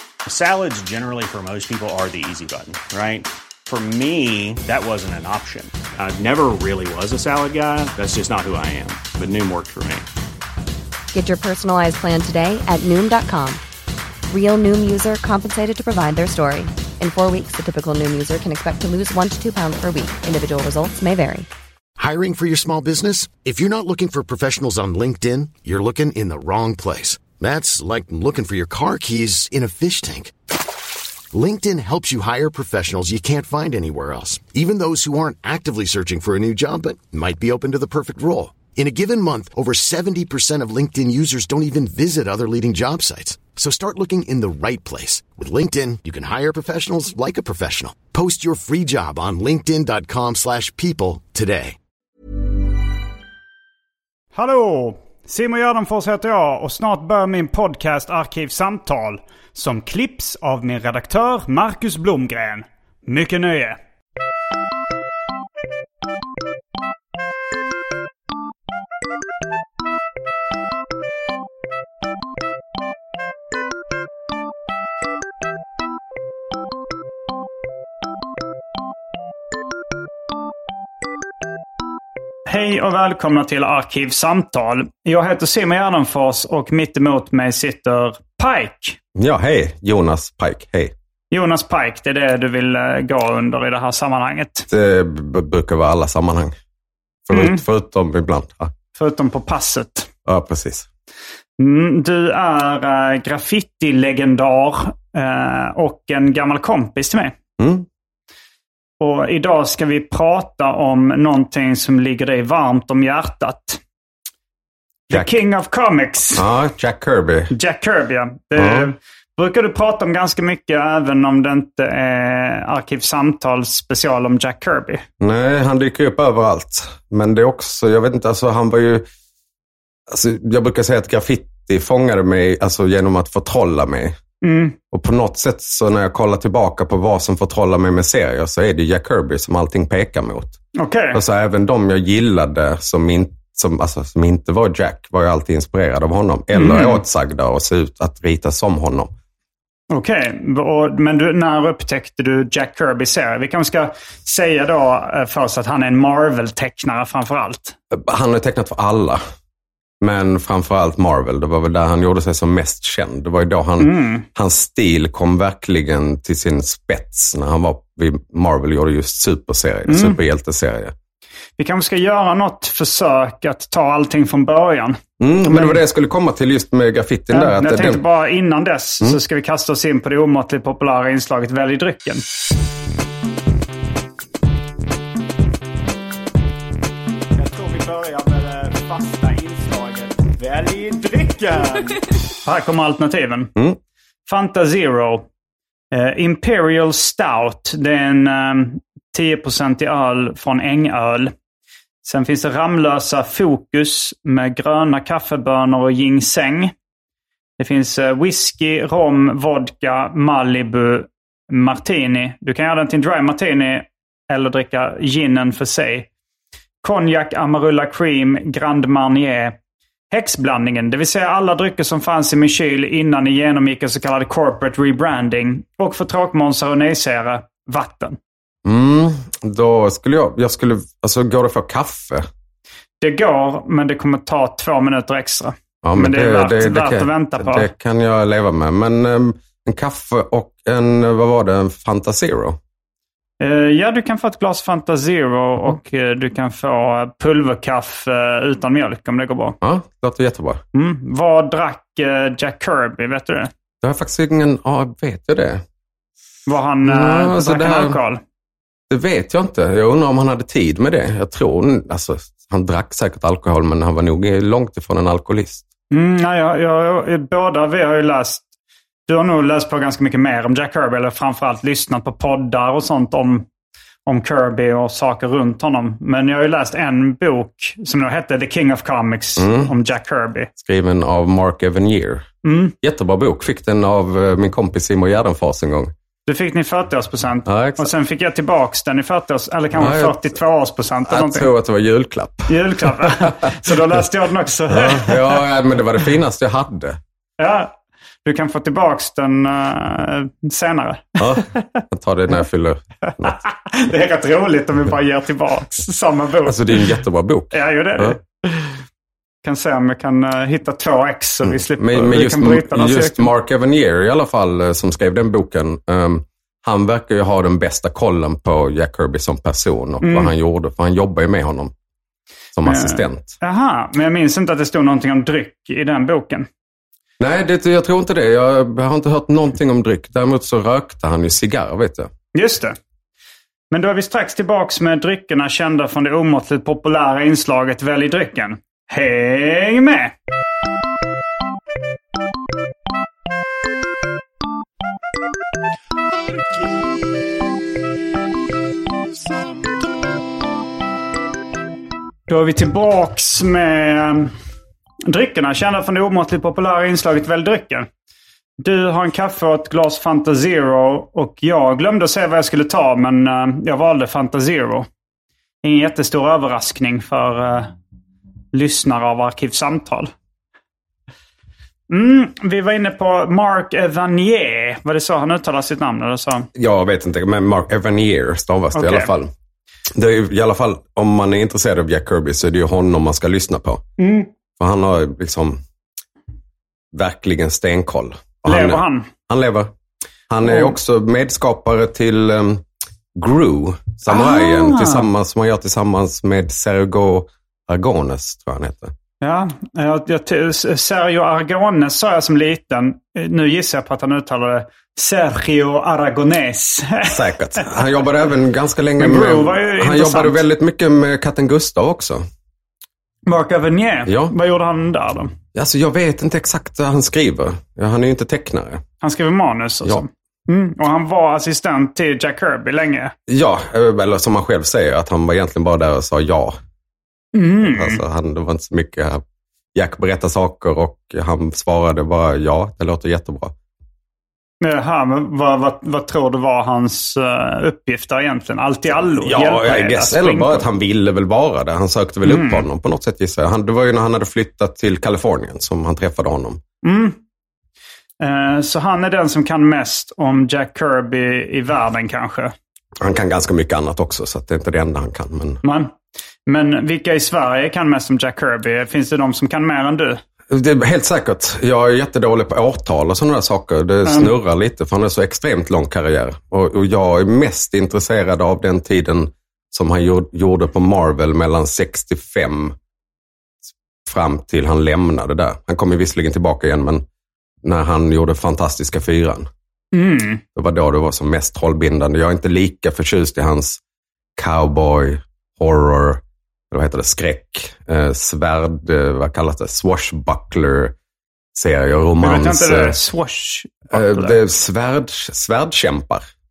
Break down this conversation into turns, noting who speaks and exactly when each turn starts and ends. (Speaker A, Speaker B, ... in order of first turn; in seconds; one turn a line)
Speaker A: 0.3-10.1
Speaker B: 11.1-13.6
Speaker B: 14.3-21.5
Speaker C: 22.0-30.3
Speaker C: 31.3-51.8
Speaker D: 54.3-63.8
Speaker D: 82.5-89.0
Speaker E: 89.2-90.9
Speaker D: 91.3-94.7
Speaker E: 94.7-96.5
Speaker E: 97.3-98.7
Speaker D: 97.3-97.6
Speaker D: 99.0-100.1
Speaker E: 100.3-100.9
Speaker D: 101.6-107.3
Speaker E: 107.6-107.9
Speaker D: 109.0-113.8
Speaker D: 115.1-116.4
Speaker E: 115.1-115.4
Speaker E: 116.3-117.5
Speaker D: 117.5-125.0
Speaker E: 118.6-118.9
Speaker E: 125.2-129.1
Speaker E: 130.1-134.2
Speaker D: 134.4-134.8
Speaker E: 134.9-140.6
Speaker D: 140.8-141.2
Speaker E: 141.1-149.1
Speaker D: 146.5-147.0
Speaker D: 149.9-157.8
Speaker E: 157.9-159.2
Speaker E: 160.0-170.9
Speaker D: 163.8-164.3
Speaker D: 169.9-170.2
Speaker D: 171.6-175.8
Speaker E: 175.2-178.0
Speaker D: 177.3-182.2
Speaker D: 187.4-193.5
Speaker D: 194.3-195.3
Speaker D: 195.9-201.3
Speaker D: 202.0-206.7
Speaker D: 207.6-216.1
Speaker D: 216.8-219.6
Speaker D: 220.1-228.2
Speaker E: 228.7-232.3
Speaker D: 233.0-237.7
Speaker E: 235.8-242.6
Speaker D: 243.4-249.6
Speaker E: 249.6-250.6
Speaker D: 250.7-253.5
Speaker E: 253.8-255.6
Speaker D: 256.5-258.2
Speaker E: 256.8-258.0
Speaker E: 258.9-265.6
Speaker D: 265.9-268.5
Speaker D: 269.1-273.5
Speaker D: 274.1-280.5
Speaker E: 279.4-279.7
Speaker E: 280.6-282.3
Speaker D: 282.4-282.7
Speaker E: 282.8-285.9
Speaker D: 286.3-291.5
Speaker E: 287.5-287.9
Speaker E: 289.7-290.3
Speaker E: 291.1-293.4
Speaker D: 292.5-295.4
Speaker E: 294.7-297.0
Speaker D: 297.4-301.6
Speaker E: 301.2-303.4
Speaker D: 303.2-307.0
Speaker E: 306.4-308.2
Speaker D: 307.5-308.7
Speaker D: 309.4-313.3
Speaker E: 311.4-321.7
Speaker D: 320.0-320.3
Speaker E: 322.6-323.4
Speaker D: 322.6-326.5
Speaker E: 327.2-332.1
Speaker D: 332.3-332.8
Speaker D: 333.7-340.1
Speaker D: 352.3-354.3
Speaker D: 355.1-357.9
Speaker D: 358.6-364.9
Speaker D: 365.6-367.7
Speaker D: 368.5-370.1
Speaker D: 371.9-376.5
Speaker E: 376.6-379.3
Speaker D: 378.7-379.1
Speaker E: 379.9-383.9
Speaker D: 384.0-384.3
Speaker E: 384.6-385.6
Speaker E: 386.9-389.7
Speaker D: 388.5-389.1
Speaker E: 390.3-392.6
Speaker D: 390.4-390.7
Speaker E: 393.1-398.9
Speaker D: 394.1-395.1
Speaker D: 399.2-407.8
Speaker E: 407.1-412.2
Speaker D: 409.0-410.4
Speaker D: 413.3-415.3
Speaker E: 414.1-414.3
Speaker E: 415.6-418.8
Speaker D: 419.0-423.1
Speaker E: 423.3-426.6
Speaker D: 427.3-428.0
Speaker E: 427.6-429.2
Speaker E: 429.8-433.5
Speaker D: 434.6-440.7
Speaker E: 439.1-446.6
Speaker D: 442.2-442.6
Speaker D: 446.8-447.2
Speaker D: 448.2-452.5
Speaker E: 453.0-455.6
Speaker D: 455.6-455.9
Speaker D: 456.5-460.2
Speaker E: 460.5-472.8
Speaker D: 464.1-464.3
Speaker E: 474.1-477.0
Speaker E: 477.6-479.5
Speaker D: 479.9-480.4
Speaker E: 480.6-483.8
Speaker E: 484.4-490.9
Speaker E: 491.6-493.0
Speaker D: 492.2-494.4
Speaker E: 493.9-496.2